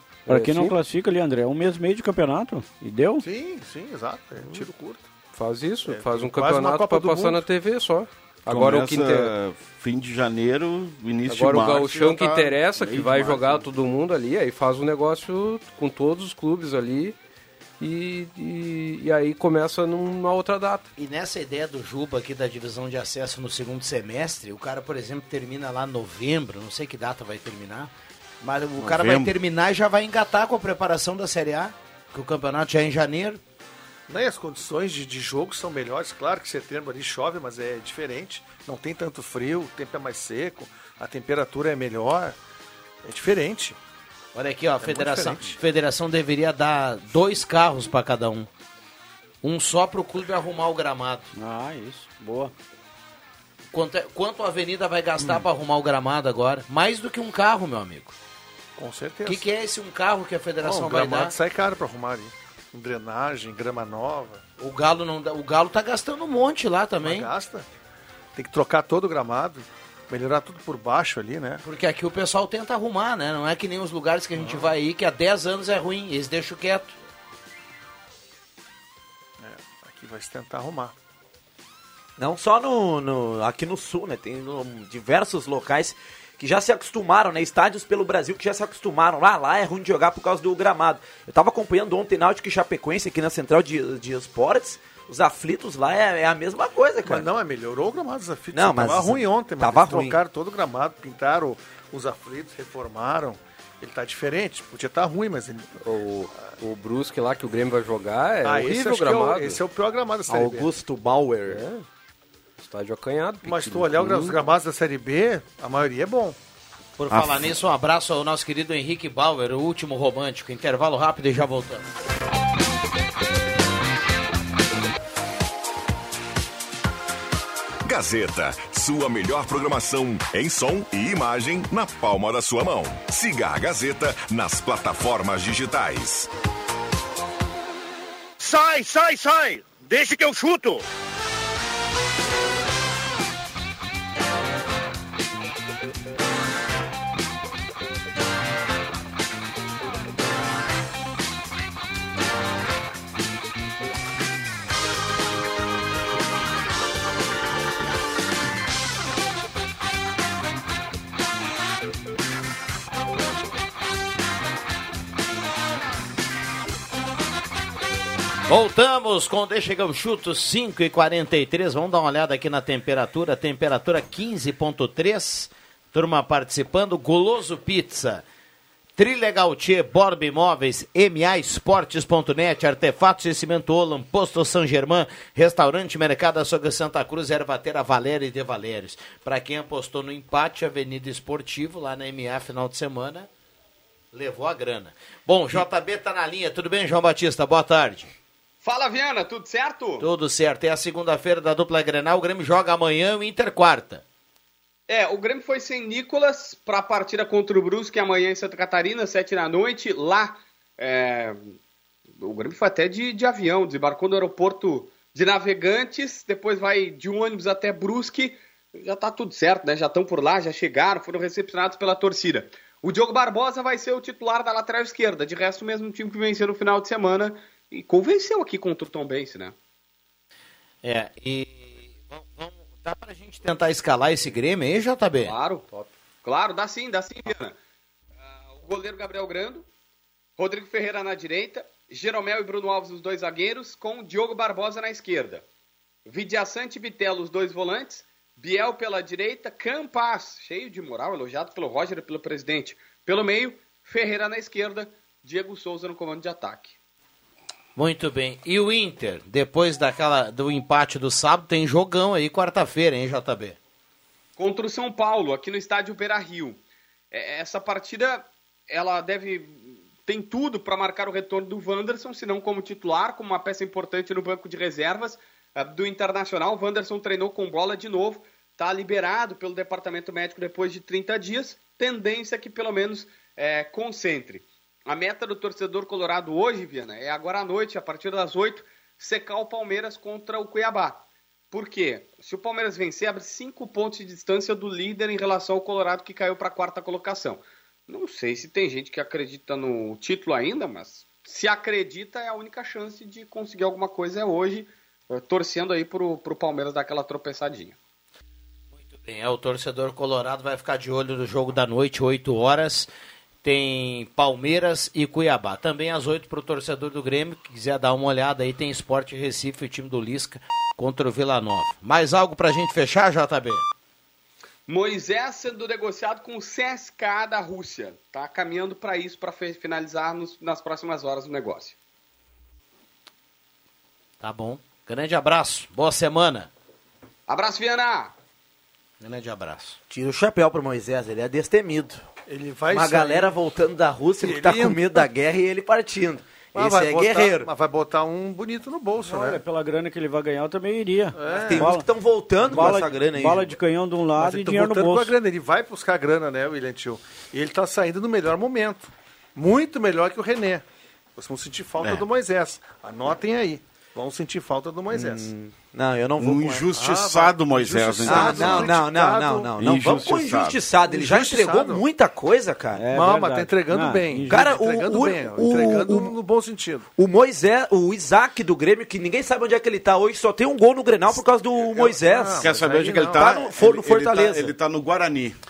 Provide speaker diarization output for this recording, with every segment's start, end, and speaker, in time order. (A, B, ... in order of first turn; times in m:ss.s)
0:00.2-0:00.8 A
0:00.3-0:03.2 B
0:03.2-0:05.0 C
0:05.3-0:09.3 A
0:05.9-0:07.4 C
0:08.5-0:13.7 D
0:11.2-0:17.2 A
0:17.8-0:20.9 A
0:21.0-0:27.9 E
0:28.4-0:33.4 E
0:28.8-0:29.3 D
0:34.1-0:42.3 C
0:43.0-0:43.8 C
0:44.3-0:48.5 E
0:44.8-0:45.6 C
0:49.4-0:51.3 E
0:51.4-0:52.5 B
0:53.7-0:58.1 E
0:58.8-0:59.4 C
0:59.2-1:01.4 E
1:00.6-1:04.4 C
1:04.6-1:07.3 E
1:07.0-1:07.6 C
1:08.3-1:11.6 C
1:11.6-1:16.9 E
1:14.4-1:14.7 C
1:19.4-1:20.9 C
1:22.2-1:37.3 F
1:37.0-1:45.7 C
1:38.5-1:40.2 F
1:45.8-1:49.6 A
1:48.4-1:50.7 C
1:50.3-1:51.6 F
1:51.5-1:51.8 A
1:52.6-1:54.4 A
1:53.4-1:56.4 C
1:57.0-2:01.8 E
1:57.1-1:57.6 D
2:07.8-2:16.3 G
2:18.4-2:20.8 H
2:48.5-2:58.2 E
2:59.0-3:13.3 E
3:14.1-3:18.1 E
3:18.6-3:20.0 I
3:20.0-3:24.0 E
3:24.9-3:31.5 I
3:32.2-3:49.5 I
3:50.8-3:55.3 E
3:55.2-3:55.6 I
3:56.2-3:57.5 I
3:58.2-3:59.6 I
4:00.4-4:05.4 I
4:06.1-4:16.8 I
4:17.8-4:23.6 E
4:24.4-4:26.6 I
4:27.1-5:07.8 I
5:08.7-5:12.9 E
5:13.4-5:23.6 E
5:24.7-5:31.8 I
5:34.2-5:36.5 E
5:37.3-5:38.1 I
5:39.0-5:39.8 E
5:39.9-5:42.0 F
5:42.3-5:43.3 C
5:42.7-5:47.5 F
5:44.2-5:45.0 C
5:46.5-5:49.4 C
5:49.0-5:51.8 B
5:51.1-5:51.7 C
5:51.3-5:53.5 F
5:52.4-5:55.1 B
5:54.2-6:00.6 C
6:01.2-6:05.3 C
6:04.9-6:06.6 F
6:06.2-6:08.7 D
6:06.7-6:09.5 C
6:08.0-6:12.8 F
6:09.6-6:10.6 D
6:10.9-6:11.8 C
6:12.8-6:14.5 B
6:12.9-6:16.8 C
6:14.3-6:16.2 F
6:17.0-6:24.5 F
6:21.7-6:23.3 C
6:22.4-6:25.3 D